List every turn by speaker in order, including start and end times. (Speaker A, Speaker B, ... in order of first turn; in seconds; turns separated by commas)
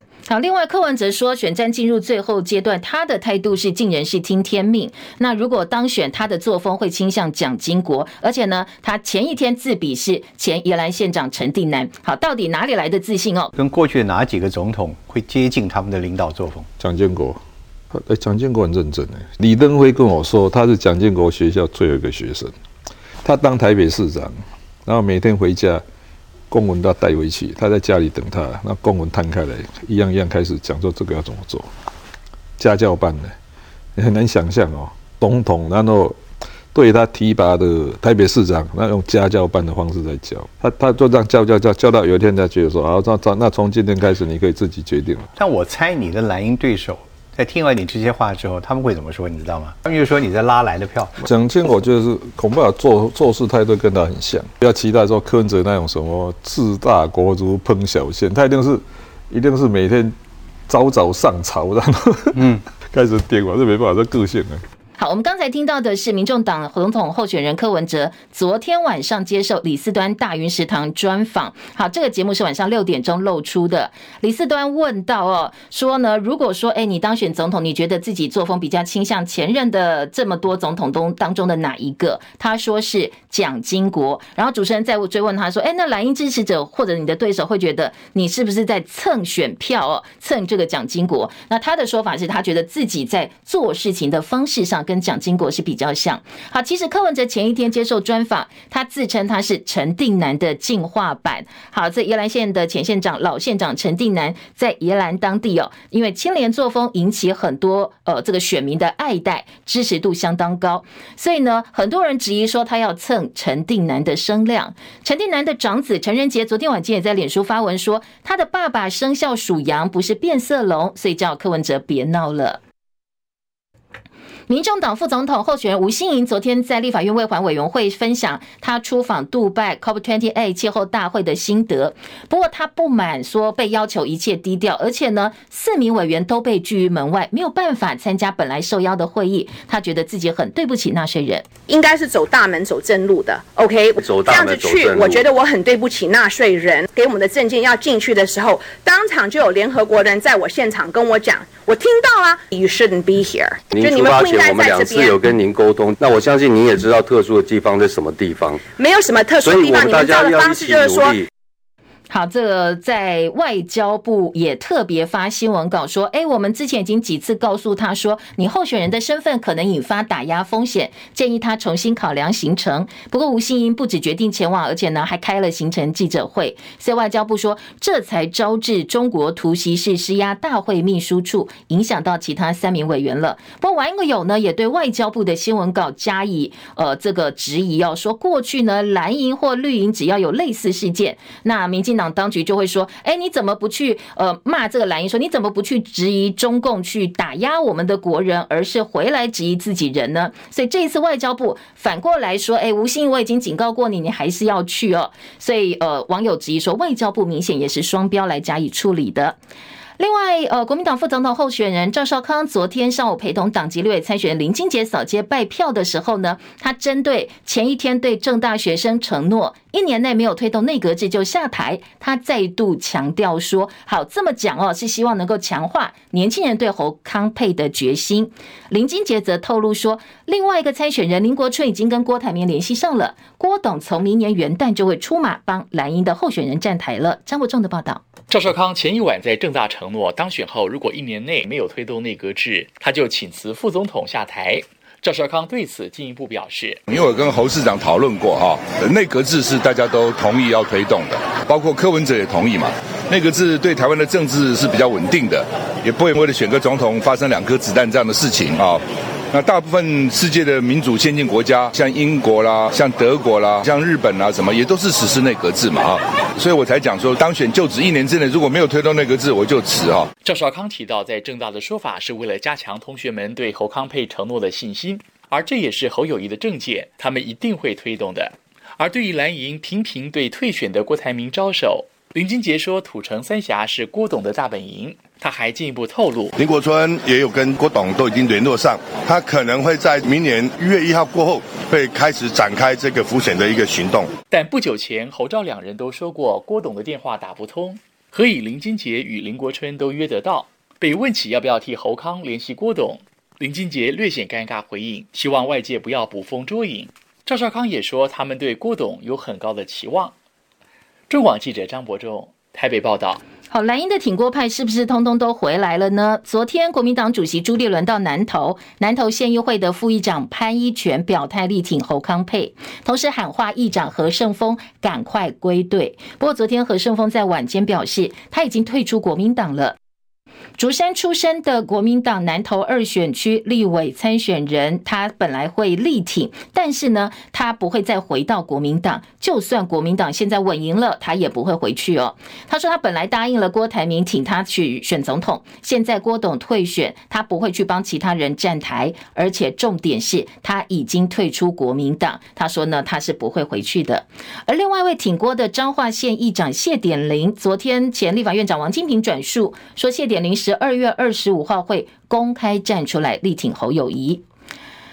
Speaker A: 0.3-13.5, Speaker B: 13.6-16.7, Speaker C: 16.8-17.4, Speaker C: 17.9-22.5, Speaker C: 23.2-25.8, Speaker C: 26.5-31.7, Speaker C: 32.6-33.4, Speaker C: 34.0-36.2, Speaker C: 36.7-45.3, Speaker B: 45.4-51.1, Speaker C: 51.2-60.1, Speaker C: 60.7-64.6, Speaker B: 62.4-62.6, Speaker A: 65.0-122.6, Speaker A: 124.5-141.5, Speaker D: 141.7-155.2, Speaker E: 144.0-145.2, Speaker E: 153.7-158.6, Speaker D: 158.7-161.2, Speaker E: 159.4-161.2, Speaker A: 162.1-209.4, Speaker A: 210.0-238.0, Speaker F: 238.3-246.8, Speaker G: 246.9-270.1, Speaker F: 270.2-286.3, Speaker H: 286.4-294.1, Speaker F: 294.3-310.1, Speaker F: 311.1-313.2, Speaker A: 313.5-329.8, Speaker A: 330.6-364.2